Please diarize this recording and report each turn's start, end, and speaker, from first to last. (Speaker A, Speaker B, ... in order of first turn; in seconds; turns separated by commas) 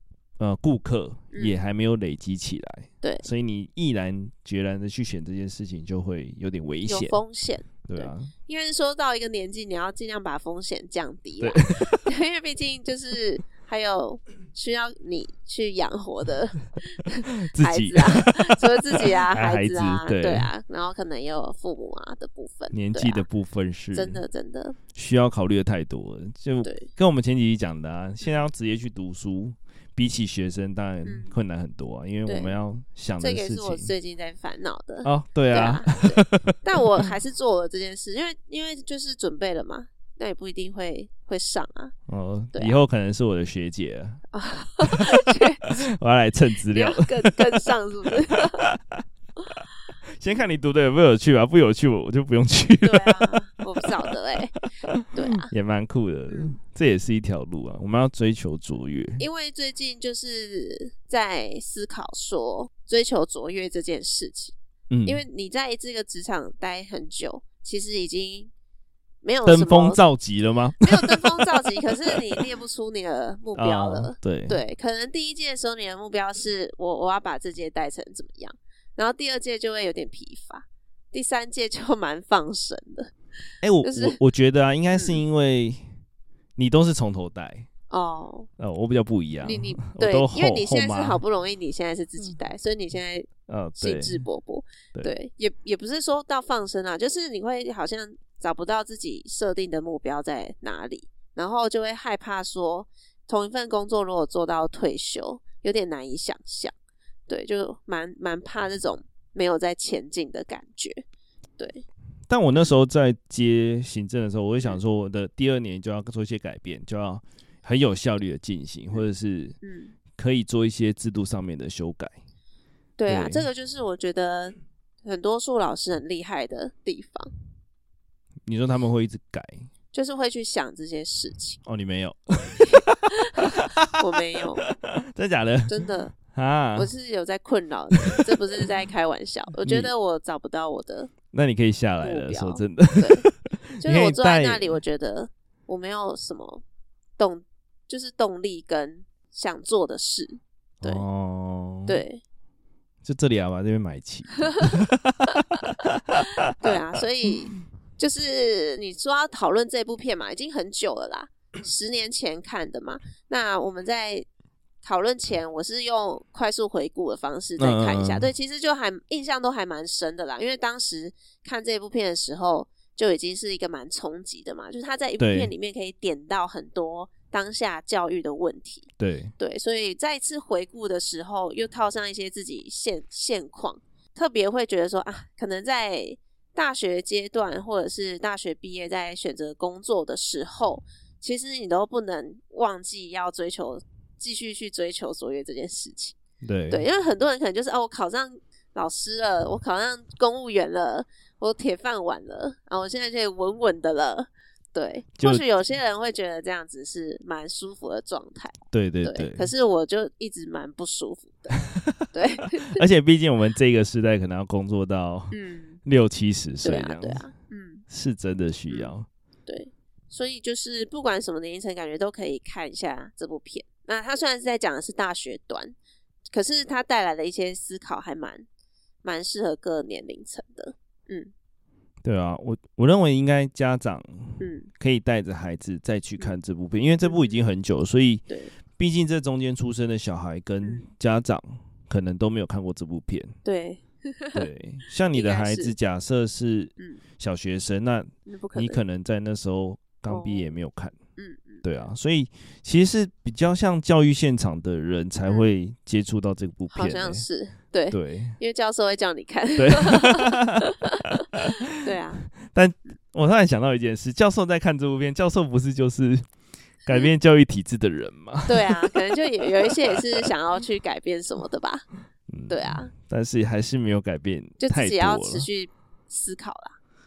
Speaker A: 0.4-7.2, Speaker B: 1.3-1.6, Speaker B: 3.0-3.3, Speaker B: 6.8-23.2, Speaker A: 7.8-8.3, Speaker A: 11.4-12.1, Speaker A: 17.4-20.5, Speaker A: 22.7-24.2, Speaker B: 23.9-24.8, Speaker A: 24.9-33.9, Speaker B: 31.0-31.3, Speaker B: 32.2-32.5, Speaker B: 33.2-41.9, Speaker A: 35.0-37.1, Speaker A: 42.1-44.2, Speaker B: 44.3-45.8, Speaker A: 44.8-47.7, Speaker B: 46.7-48.6, Speaker A: 48.3-49.0, Speaker A: 50.2-54.0, Speaker B: 52.8-54.5, Speaker A: 54.9-59.2, Speaker B: 55.1-55.5, Speaker B: 56.3-56.5, Speaker B: 59.2-64.5, Speaker A: 64.9-65.2, Speaker B: 65.0-68.5, Speaker B: 69.2-70.0, Speaker A: 69.4-72.4, Speaker B: 70.8-83.1, Speaker A: 73.5-74.6, Speaker A: 83.6-85.8, Speaker B: 83.8-84.2, Speaker B: 84.9-85.2, Speaker A: 86.6-87.7, Speaker B: 87.9-88.5, Speaker A: 88.6-91.2, Speaker B: 89.4-106.7, Speaker A: 93.5-94.2, Speaker B: 107.3-111.0, Speaker B: 111.6-111.8, Speaker A: 112.3-119.6, Speaker B: 119.6-119.9, Speaker A: 120.2-122.1, Speaker B: 123.0-127.3, Speaker A: 123.0-123.5, Speaker A: 128.5-129.7, Speaker B: 129.9-131.6, Speaker A: 131.6-136.9, Speaker B: 132.6-134.6, Speaker B: 135.7-136.1, Speaker B: 136.7-141.1, Speaker A: 137.9-138.6, Speaker A: 139.6-139.9, Speaker A: 141.3-144.8, Speaker B: 142.0-143.2, Speaker B: 143.8-146.6, Speaker B: 147.2-151.0, Speaker A: 150.8-152.0, Speaker B: 151.8-152.2, Speaker A: 153.0-156.7, Speaker B: 156.6-164.2, Speaker B: 164.8-178.9, Speaker A: 167.6-168.3, Speaker A: 175.2-175.5, Speaker A: 179.0-179.3, Speaker B: 179.4-196.2, Speaker A: 196.4-196.8, Speaker B: 196.7-212.8, Speaker A: 205.2-205.5, Speaker A: 208.7-209.5, Speaker A: 211.6-217.3, Speaker B: 215.3-215.8, Speaker B: 216.6-217.8, Speaker A: 217.9-219.1, Speaker B: 219.4-225.7, Speaker B: 226.3-228.4, Speaker B: 229.0-231.3, Speaker A: 232.0-243.3, Speaker B: 234.4-234.7, Speaker B: 237.0-237.4, Speaker B: 243.4-244.5, Speaker A: 244.3-251.0, Speaker B: 245.1-245.7, Speaker B: 248.2-248.8, Speaker B: 250.1-250.6, Speaker B: 251.2-251.6, Speaker A: 251.6-257.2, Speaker B: 256.7-261.2, Speaker A: 257.9-258.4, Speaker A: 259.6-261.5, Speaker B: 261.7-262.3, Speaker A: 262.4-266.2, Speaker A: 266.8-270.3, Speaker B: 266.9-267.1, Speaker B: 268.5-271.9, Speaker A: 272.3-275.5, Speaker B: 272.5-272.9, Speaker B: 274.6-276.8